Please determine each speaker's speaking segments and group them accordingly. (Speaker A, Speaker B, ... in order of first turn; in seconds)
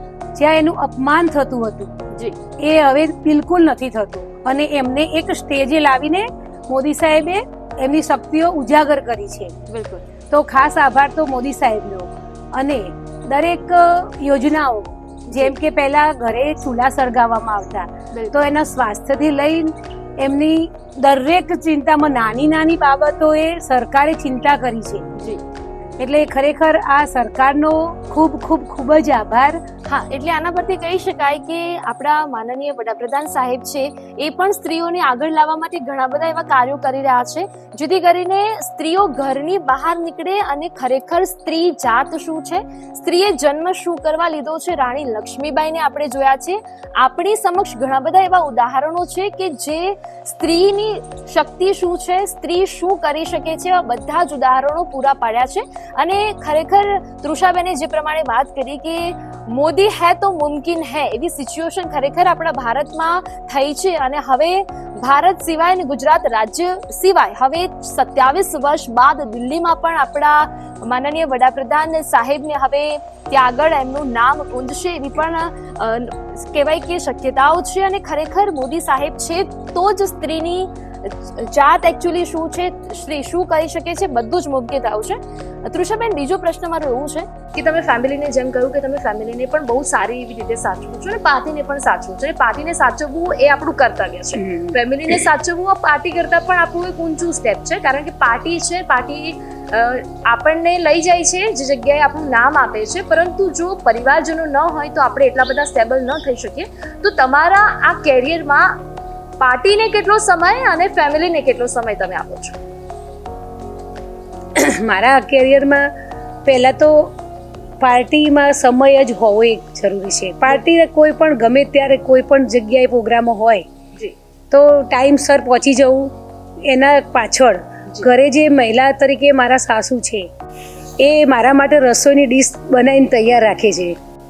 Speaker A: 0.3-1.9, 2.6-9.5, 10.3-25.0, 26.0-29.6, 94.3-95.2, 114.5-115.9, 116.4-117.1, 117.8-123.6, 124.5-126.1, 126.6-130.3, 131.0-133.9
Speaker B: 2.1-2.4, 9.7-10.0, 15.3-15.5, 25.1-25.4, 29.9-108.7, 109.4-112.5